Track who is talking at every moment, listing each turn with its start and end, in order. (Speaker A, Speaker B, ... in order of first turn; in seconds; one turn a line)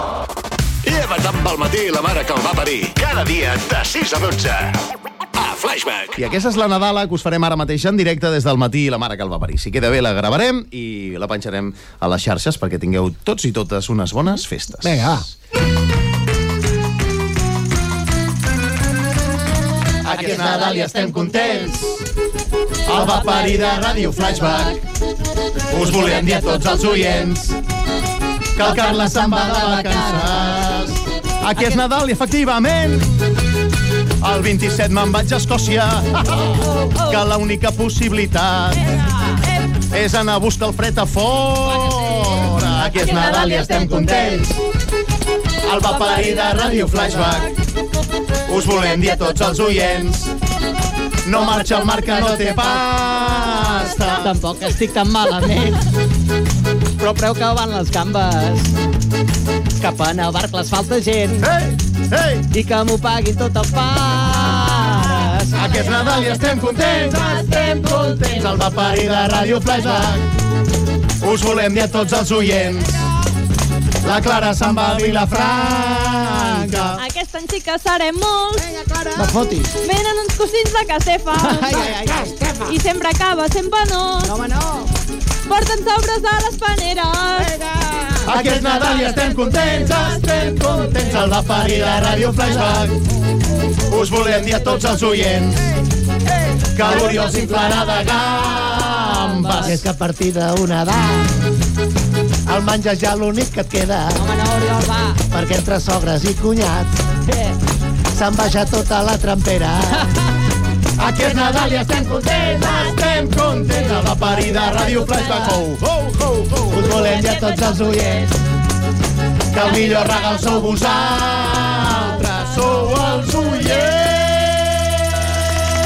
Speaker A: 0.8-4.8
Speaker A: 5.3-6.2
Speaker B: 6.2-15.1
Speaker C: 14.8-15.2
Speaker B: 20.0-22.0
Speaker D: 20.1-21.7
Speaker B: 22.9-24.8
Speaker E: 22.9-24.6
Speaker B: 25.7-27.6
Speaker D: 26.0-26.3
Speaker B: 28.6-33.2
Speaker D: 28.6-30.9
Speaker B: 34.2-38.8
Speaker E: 36.8-37.2
Speaker B: 39.9-44.6
Speaker E: 41.7-44.4
Speaker B: 45.6-47.5
Speaker E: 45.9-47.5
Speaker B: 48.5-50.3
Speaker B: 51.2-54.3
Speaker D: 54.1-55.8
Speaker D: 57.0-58.7
Speaker D: 59.8-61.5
Speaker B: 61.4-62.5
Speaker D: 62.5-65.7
Speaker B: 65.5-70.2
Speaker E: 65.7-66.3
Speaker E: 67.0-68.4
Speaker B: 71.2-73.0
Speaker B: 74.0-77.0
Speaker E: 77.0-78.7
Speaker D: 78.6-79.4
Speaker C: 79.2-79.7
Speaker E: 79.8-81.9
Speaker D: 81.4-82.6
Speaker C: 81.7-82.7
Speaker E: 82.7-84.3
Speaker D: 84.2-84.9
Speaker E: 85.5-87.5
Speaker D: 87.4-88.3
Speaker B: 88.2-93.0
Speaker B: 93.9-95.7
Speaker B: 96.7-99.8
Speaker D: 96.8-97.3
Speaker E: 96.9-97.7
Speaker C: 99.6-101.3
Speaker C: 102.5-104.2
Speaker D: 104.2-105.2
Speaker C: 105.3-106.9
Speaker C: 108.1-110.1
Speaker B: 111.0-116.9
Speaker E: 111.3-113.0
Speaker E: 113.7-115.6
Speaker C: 116.7-118.3
Speaker E: 116.8-118.3
Speaker B: 119.5-125.3
Speaker E: 119.7-120.7
Speaker E: 122.0-122.4